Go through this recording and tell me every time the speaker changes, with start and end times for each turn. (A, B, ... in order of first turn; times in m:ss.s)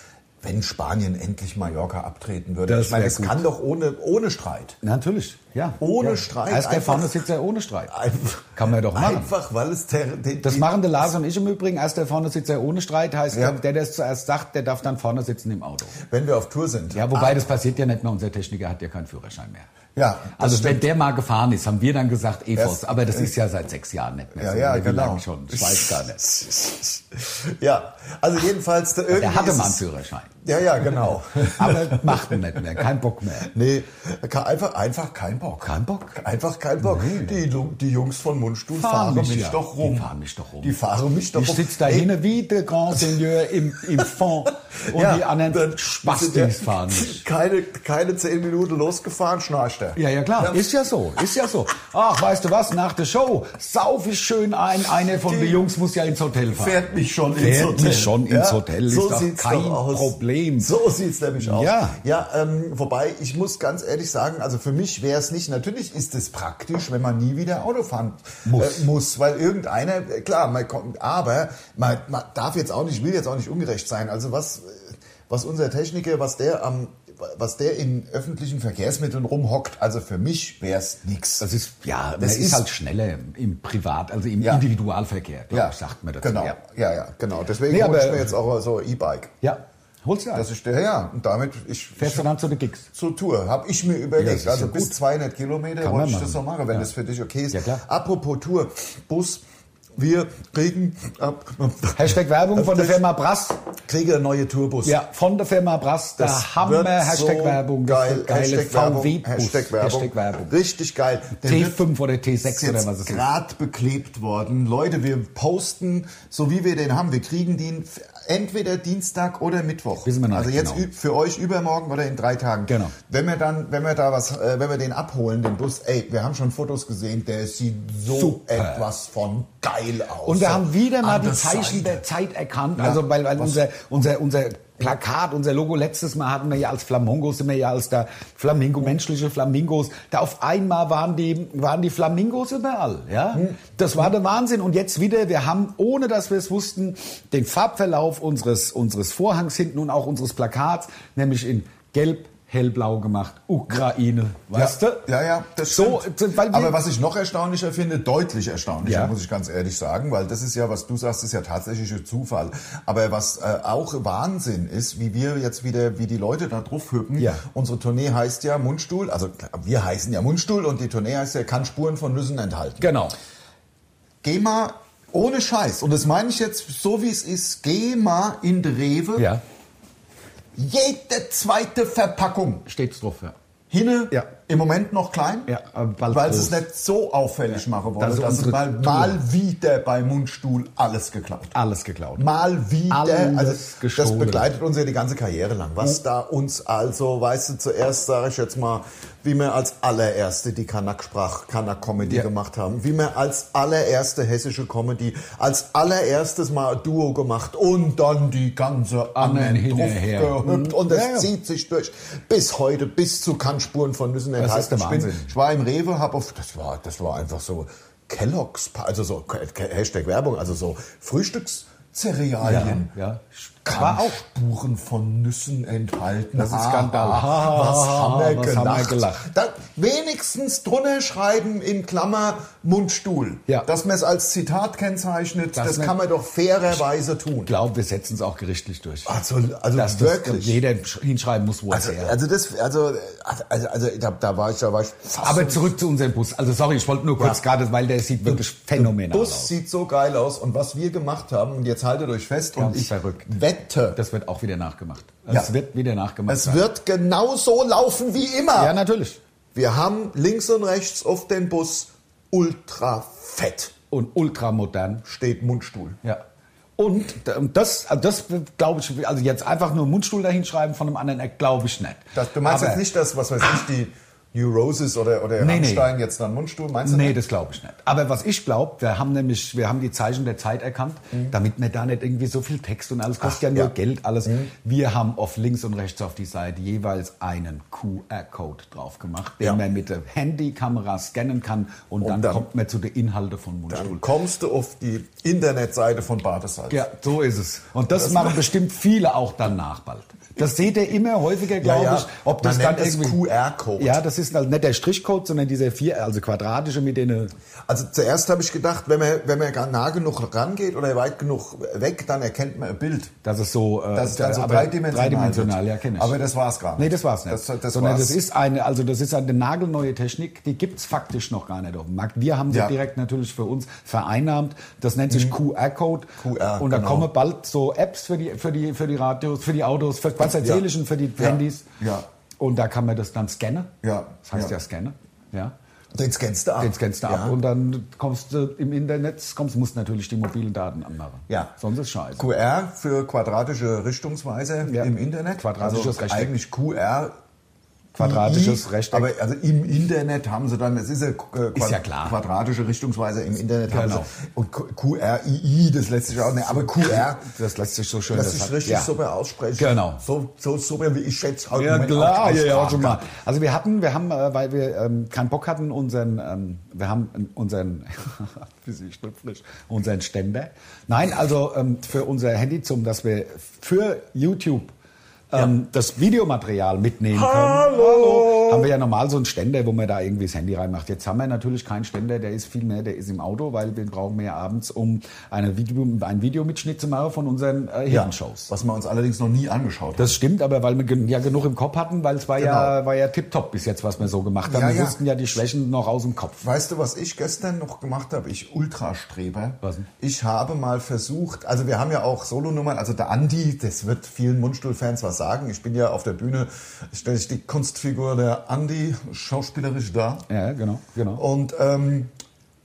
0:00.4-0:04.8 A
0:02.7-0:03.4 B
0:04.8-0:08.0 B
0:05.8-0:07.2 A
0:07.9-0:11.1 A
0:08.6-0:09.3 B
0:10.4-0:16.0 B
0:13.3-0:13.6 A
0:16.0-0:17.5 A
0:16.9-0:19.7 B
0:20.0-0:20.8 A
0:20.4-0:26.2 B
0:22.6-0:23.3 A
0:24.4-0:29.8 A
0:29.1-0:30.3 B
0:30.4-0:32.9 A
0:31.4-0:33.5 B
0:33.4-0:42.1 A
0:35.6-0:36.2 B
0:36.8-0:37.4 B
0:38.7-0:40.8 B
0:41.3-0:47.2 B
0:44.9-0:50.7 A
0:50.0-0:56.8 B
0:55.0-0:55.7 A
0:56.5-1:21.5 A
0:57.4-1:00.7 B
1:01.4-1:02.0 B
1:08.4-1:08.9 B
1:21.4-1:26.6 B
1:22.2-1:22.7 A
1:24.4-1:24.7 A
1:25.5-1:29.3 A
1:27.7-1:28.4 B
1:29.4-1:30.5 B
1:30.4-1:32.3 A
1:32.0-1:32.9 B
1:32.9-1:39.4 A
1:34.2-1:34.9 B
1:35.8-1:36.9 B
1:37.5-1:37.8 B
1:40.0-1:43.0 A
1:42.0-1:43.6 B
1:43.9-1:45.0 A
1:44.8-1:50.6 B
1:46.2-1:51.9 A
1:51.4-1:53.2 B
1:52.4-2:12.1 A
2:00.0-2:00.9 B
2:02.7-2:03.0 B
2:08.1-2:08.8 B
2:10.2-2:35.1 B
2:12.8-2:13.6 A
2:34.5-2:53.0 A
2:35.7-2:36.8 B
2:38.8-2:39.1 B
2:47.2-2:47.4 B
2:52.8-2:53.2 B
2:54.2-2:59.3 A
2:59.2-2:59.4 B
3:00.6-3:02.7 A
3:02.7-3:03.4 B
3:03.7-3:05.5 A
3:05.5-3:06.6 B
3:06.1-3:11.6 A
3:07.5-3:09.2 B
3:11.5-3:12.3 B
3:12.2-3:42.9 A
3:12.9-3:14.5 B
3:29.2-3:31.3 B
3:34.4-3:35.3 B
3:42.4-3:44.2 B
3:43.6-3:57.5 A
3:46.4-3:49.3 B
3:55.5-3:56.0 B
3:57.4-3:59.2 B
3:59.1-4:00.6 A
3:59.7-4:02.2 B
4:01.7-4:05.7 A
4:05.2-4:09.6 B
4:07.2-4:07.4 A
4:08.2-4:14.0 A
4:12.6-4:13.3 B
4:14.0-4:16.7 B
4:16.3-4:18.8 A
4:18.6-4:19.2 B
4:19.6-4:23.7 A
4:23.9-4:25.0 B
4:25.0-4:26.0 A
4:26.8-4:32.8 B
4:32.1-4:37.2 A
4:35.4-4:35.9 B
4:36.8-4:54.0 B
4:43.2-4:43.7 A
4:44.2-4:44.5 A
4:52.0-4:52.5 A
4:53.7-4:56.9 A
4:56.7-5:03.2 B
4:57.9-4:58.5 A
5:01.6-5:04.0 A
5:03.8-5:07.3 B
5:07.7-5:13.1 A
5:13.2-5:16.2 B
5:13.9-5:18.2 A
5:16.8-5:31.7 B
5:22.5-5:22.8 A
5:25.1-5:25.4 A
5:26.2-5:27.1 A
5:30.4-5:30.7 A
5:31.2-5:32.1 A
5:32.4-5:33.7 B
5:33.8-5:34.6 A
5:34.2-5:35.6 B
5:35.9-5:37.4 A
5:36.6-5:42.3 B
5:42.2-5:47.1 A
5:44.6-5:46.3 B
5:48.0-5:49.1 B
5:48.0-5:57.3 A
5:51.6-5:52.2 B
5:53.7-5:54.1 B
5:56.4-5:58.9 B
5:58.1-6:03.1 A
5:59.6-6:00.0 B
6:01.5-6:14.7 B
6:15.3-6:28.5 B
6:17.1-6:18.7 A
6:27.9-6:30.2 A
6:30.0-6:36.5 B
6:32.4-6:32.8 A
6:34.4-6:35.0 A
6:36.4-6:50.3 A
6:39.6-6:39.9 B
6:50.3-6:51.2 B
6:51.2-6:52.1 A